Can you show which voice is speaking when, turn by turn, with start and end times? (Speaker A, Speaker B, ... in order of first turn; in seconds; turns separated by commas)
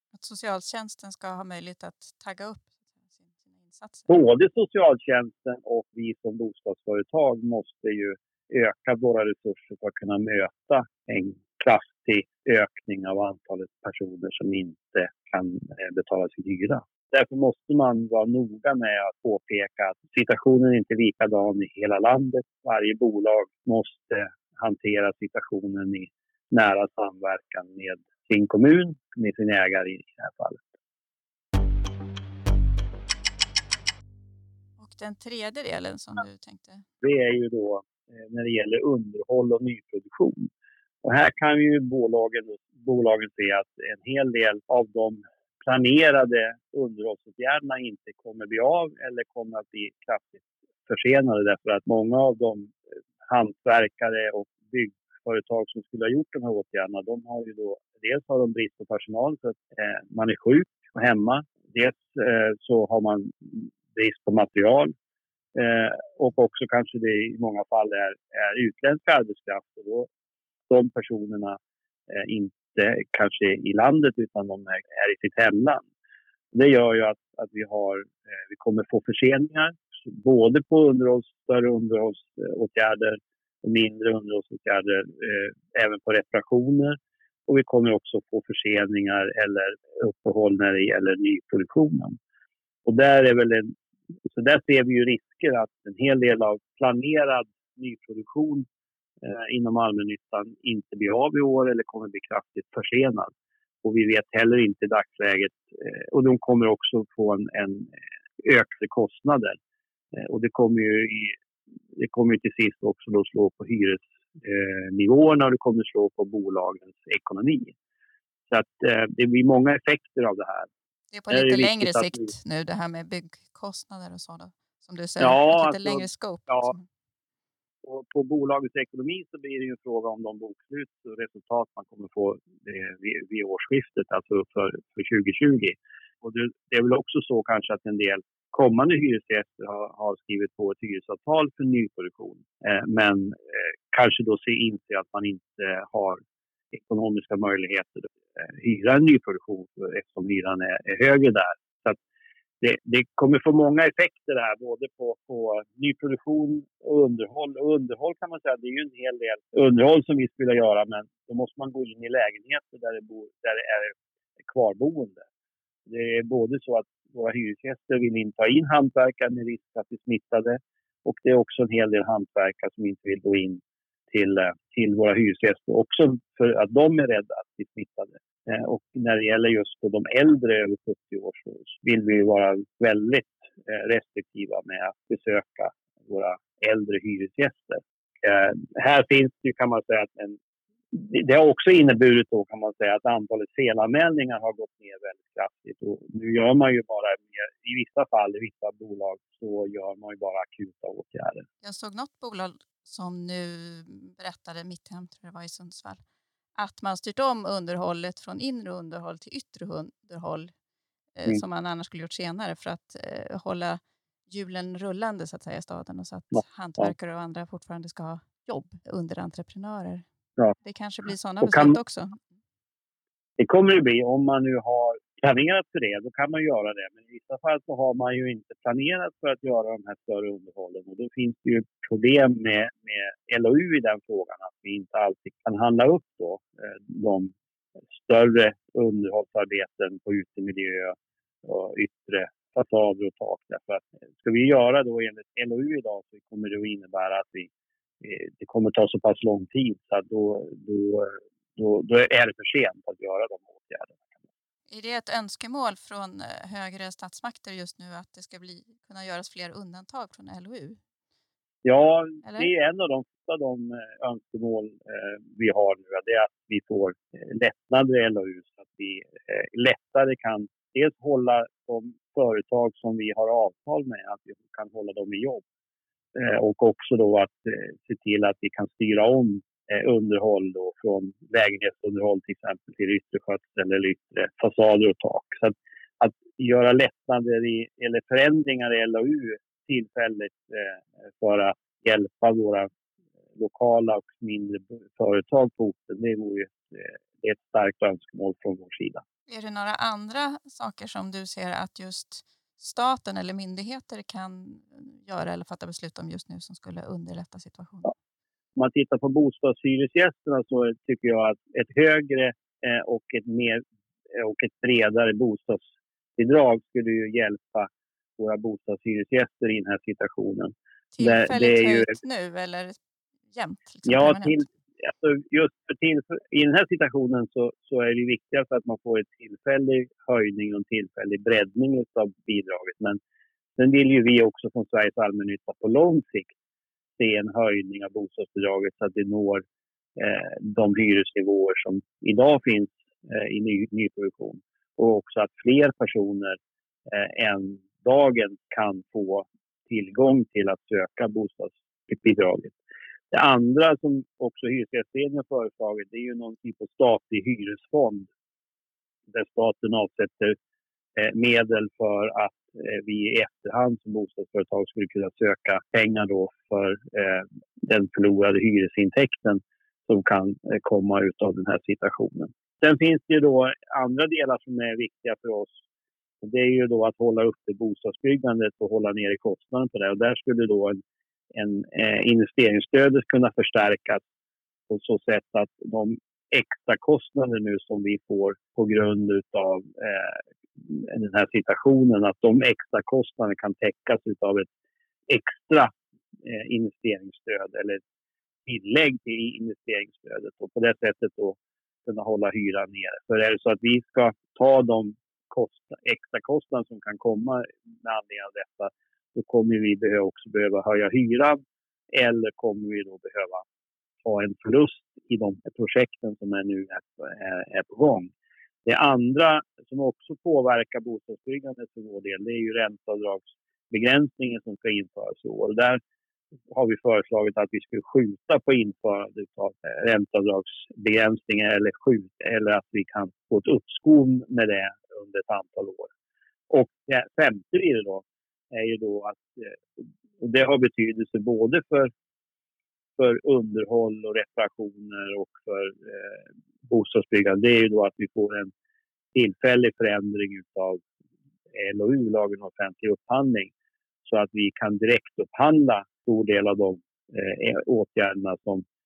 Speaker A: 0.1-4.1, Speaker B: 4.1-30.7, Speaker A: 34.8-36.8, Speaker B: 37.0-40.5, Speaker B: 41.0-52.8, Speaker B: 53.3-64.9, Speaker B: 65.5-70.1, Speaker B: 70.7-71.6, Speaker B: 72.1-75.8, Speaker B: 76.5-92.2, Speaker B: 92.8-93.7, Speaker B: 94.3-98.7, Speaker B: 99.2-103.3, Speaker B: 103.8-107.9, Speaker B: 108.4-109.6, Speaker B: 110.2-111.3, Speaker B: 112.0-117.7, Speaker B: 118.5-120.7, Speaker A: 121.1-126.8, Speaker B: 121.3-122.3, Speaker B: 125.2-126.7, Speaker B: 127.8-146.2, Speaker B: 146.7-152.0, Speaker B: 152.6-165.2, Speaker B: 165.9-190.4, Speaker B: 190.9-201.4, Speaker A: 201.6-206.0, Speaker A: 206.6-210.5, Speaker A: 211.1-220.0, Speaker B: 216.3-216.9, Speaker A: 220.6-222.2, Speaker B: 221.4-221.8, Speaker B: 223.4-237.3, Speaker B: 237.9-247.5, Speaker B: 248.0-254.1, Speaker A: 254.7-260.8, Speaker B: 261.6-275.4, Speaker A: 262.2-262.5, Speaker B: 276.1-292.7, Speaker B: 293.4-299.0, Speaker A: 299.3-307.9, Speaker B: 308.6-313.6, Speaker B: 314.1-321.9, Speaker A: 320.9-322.8, Speaker A: 323.3-324.4, Speaker B: 323.9-333.0, Speaker B: 333.6-336.3, Speaker B: 337.0-339.4, Speaker B: 339.9-352.6, Speaker B: 353.1-358.1, Speaker B: 359.1-360.4, Speaker B: 360.9-375.5, Speaker B: 376.2-380.8, Speaker B: 381.3-384.0, Speaker B: 384.7-394.5, Speaker B: 395.1-395.7, Speaker B: 396.2-397.8, Speaker B: 398.4-411.4, Speaker B: 411.9-413.4, Speaker B: 414.0-418.1, Speaker B: 418.6-425.8, Speaker B: 426.5-435.9, Speaker B: 436.5-441.9, Speaker B: 443.0-448.5, Speaker B: 449.1-450.8, Speaker B: 451.5-453.5, Speaker B: 454.0-458.6